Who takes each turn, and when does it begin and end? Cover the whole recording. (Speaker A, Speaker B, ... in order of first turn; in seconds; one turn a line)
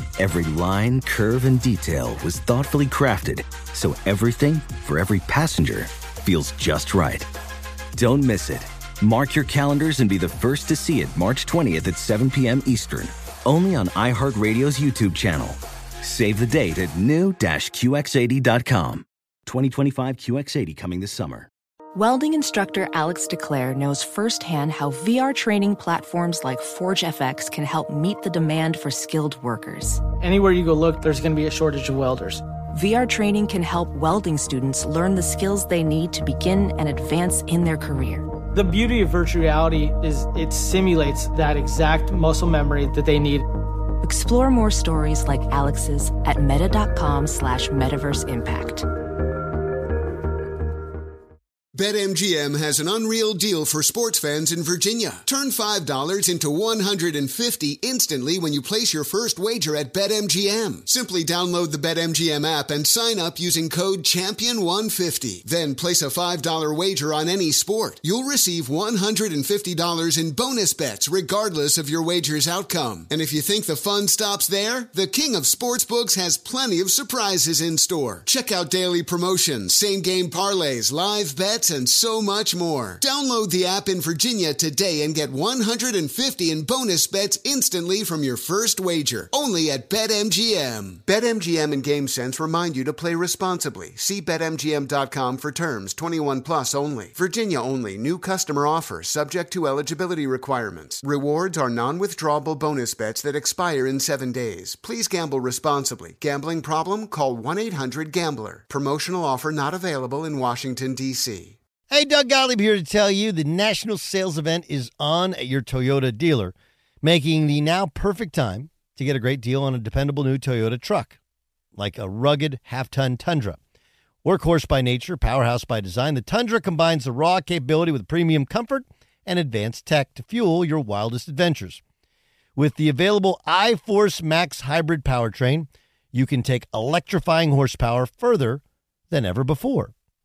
Speaker A: 0.2-7.3
Speaker A: 7.9-21.5
Speaker B: 21.9-30.0
Speaker C: 30.2-32.4
Speaker B: 32.7-38.2
Speaker C: 38.5-43.5
Speaker B: 44.0-48.9
Speaker D: 51.7-111.6
Speaker E: 111.9-121.2
Speaker E: 121.7-123.6
Speaker E: 124.2-131.8
Speaker E: 132.6-139.9